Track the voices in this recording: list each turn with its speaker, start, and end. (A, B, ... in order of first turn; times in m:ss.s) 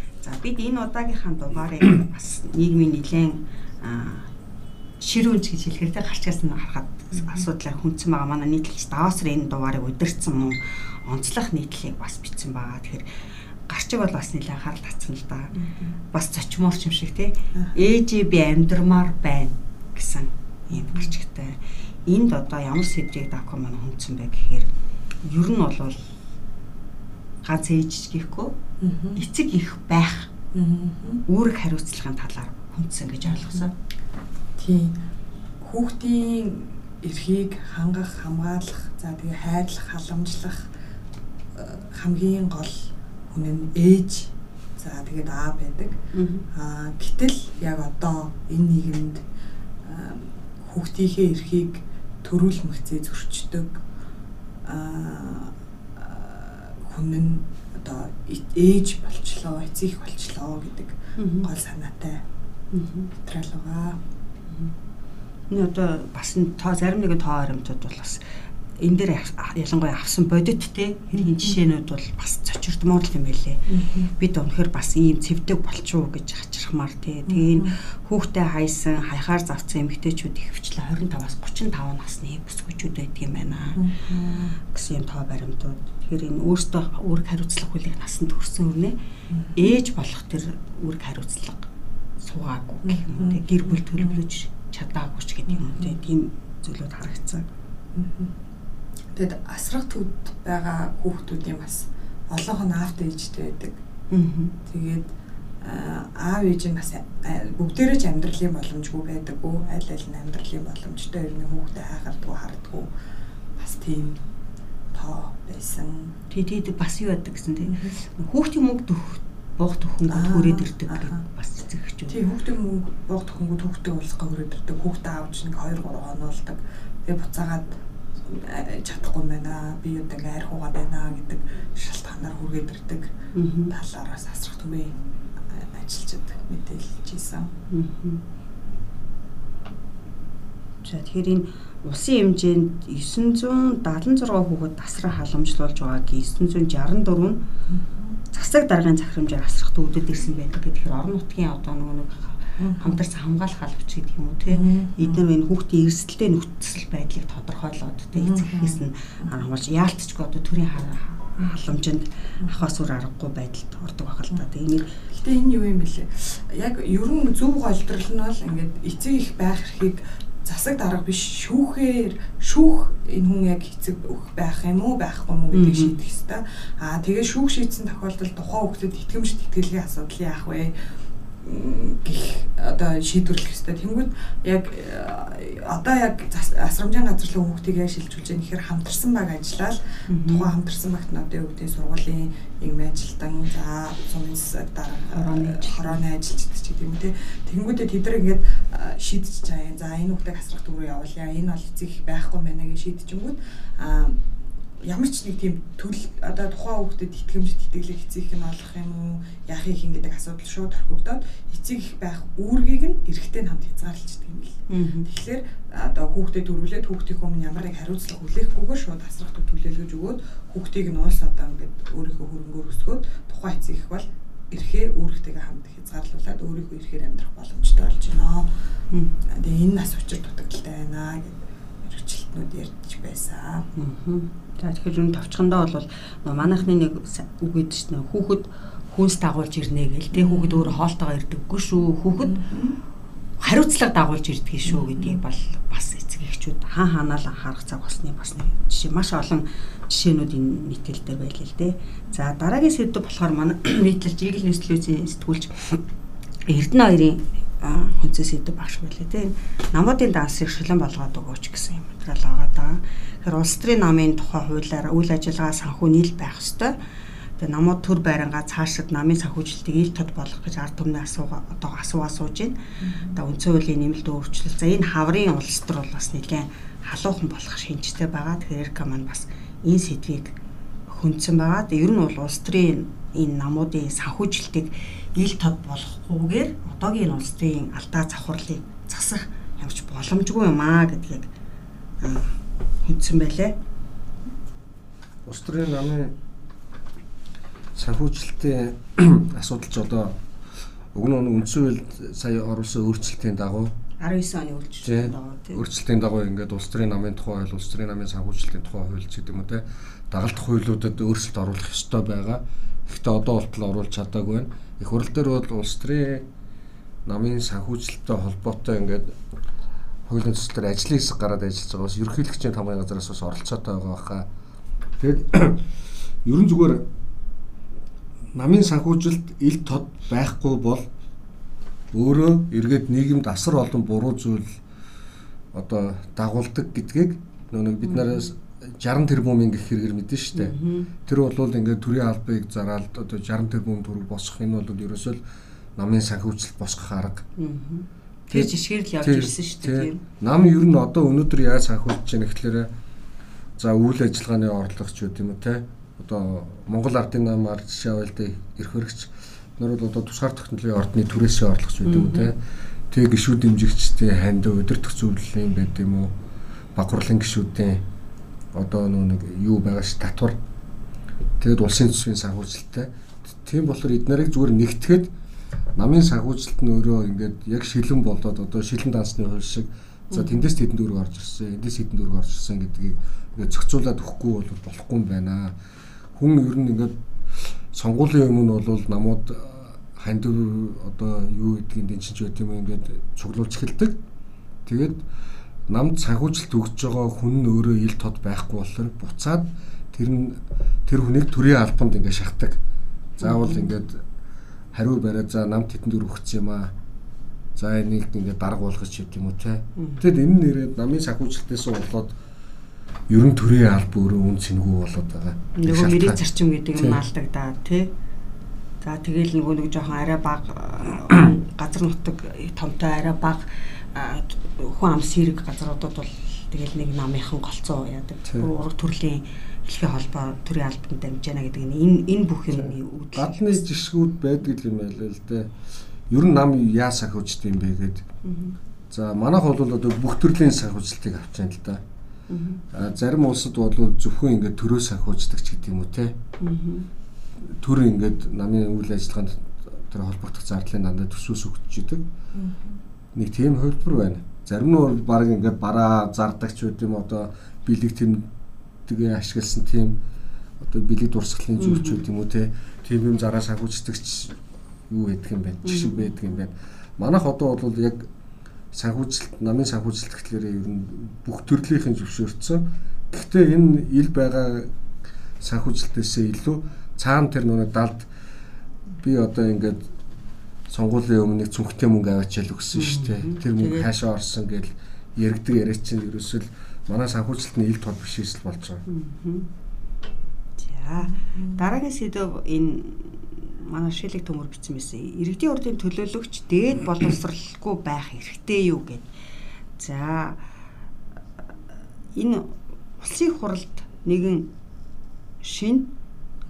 0:00.2-0:04.3 A
0:05.0-0:13.1 A
0:07.1-0:07.5 B
0:13.7-0:15.6 A
0:15.6-0:16.0 B
0:16.1-0:24.7 A
0:20.7-0:21.1 B
0:25.3-0:26.1 A
0:27.4-0:28.6 A
0:28.8-0:29.2 B
0:29.2-0:30.3 A
0:30.5-0:31.2 B
0:31.3-0:33.7 A
0:33.3-0:33.7 B
0:34.6-0:35.0 B
0:35.6-0:40.7 B
0:41.5-0:46.0 B
0:46.1-0:46.5 A
0:46.5-0:49.2 B
0:49.8-0:53.8 B
0:54.6-1:02.2 B
1:01.2-1:01.5 A
1:02.7-1:03.1 A
1:03.2-1:04.0 B
1:05.5-1:08.2 A
1:08.8-1:29.0 A
1:13.7-1:14.1 B
1:17.3-1:17.8 B
1:23.8-1:24.6 B
1:29.3-1:29.8 B
1:29.6-1:31.7 A
1:32.2-1:37.4 A
1:32.9-1:34.2 B
1:35.7-1:36.0 B
1:38.0-1:38.4 B
1:39.2-1:43.8 B
1:44.1-1:44.5 A
1:44.7-1:45.1 B
1:45.6-1:52.9 B
1:53.6-1:54.2 B
1:54.9-1:56.1 B
1:56.3-2:02.2 A
1:57.6-1:58.0 B
2:00.1-2:01.2 B
2:02.1-2:07.7 B
2:08.3-2:13.1 B
2:13.3-2:13.7 A
2:13.7-2:17.5 B
2:17.7-2:18.2 A
2:20.8-2:27.4 A
2:27.7-2:28.1 B
2:28.3-2:45.0 A
2:32.6-2:33.0 B
2:34.5-2:35.2 B
2:38.2-2:39.3 B
2:41.4-2:41.7 B
2:45.1-3:00.7 B
2:55.5-2:56.0 A
3:01.4-3:24.2 B
3:10.1-3:10.5 A
3:15.2-3:16.0 A
3:24.8-3:48.5 B
3:34.7-3:35.1 A
3:49.3-3:53.7 B
3:53.8-4:02.4 A
4:00.1-4:00.8 B
4:02.2-4:02.8 B
4:03.4-4:15.8 A
4:04.7-4:05.2 B
4:16.5-4:26.8 A
4:27.4-4:40.4 A
4:32.8-4:33.2 B
4:40.9-4:51.3 A
4:52.0-4:53.6 A
4:55.2-4:56.2 C
4:57.8-5:00.2 C
5:00.9-5:03.7 C
5:04.0-5:05.6 A
5:04.8-5:16.3 C
5:17.1-5:19.2 C
5:20.1-5:24.3 C
5:25.0-5:25.7 C
5:26.2-5:26.8 C
5:28.4-5:30.9 C
5:31.9-5:34.5 C
5:35.5-5:40.6 C
5:37.8-5:38.3 A
5:40.3-5:40.9 A
5:41.1-5:45.2 C
5:45.8-5:47.2 C
5:47.4-5:50.0 A
5:48.3-5:52.7 C
5:53.6-6:06.1 C
6:01.8-6:02.3 A
6:06.8-6:07.8 C
6:08.5-6:10.4 C
6:11.4-6:15.1 C
6:15.8-6:25.6 C
6:20.1-6:20.5 A
6:26.2-6:34.0 C
6:34.7-6:35.0 C
6:35.7-6:42.6 C
6:43.2-6:44.0 C
6:43.2-6:43.8 A
6:44.7-6:46.7 C
6:47.6-6:52.2 C
6:49.8-6:50.1 A
6:53.1-6:56.2 C
6:55.6-6:57.9 A
6:56.8-6:57.0 C
6:58.8-7:13.6 A
7:12.5-7:15.5 C
7:16.1-7:18.1 C
7:18.2-7:18.6 A
7:18.9-7:21.8 C
7:22.3-7:22.6 A
7:22.7-7:26.2 C
7:26.4-7:26.9 A
7:27.4-7:32.0 C
7:32.3-7:32.8 B
7:33.2-7:38.3 C
7:38.9-7:40.0 C
7:40.6-7:48.1 C
7:41.6-7:42.0 A
7:45.6-7:46.2 A
7:48.7-7:54.7 C
7:55.4-7:58.1 C
7:59.0-7:59.8 C
8:00.7-8:08.8 C
8:02.7-8:03.9 A
8:08.9-8:09.5 A
8:10.6-8:19.1 A
8:11.0-8:11.7 B
8:19.8-8:20.4 A
8:22.1-8:24.5 A
8:25.4-8:25.9 A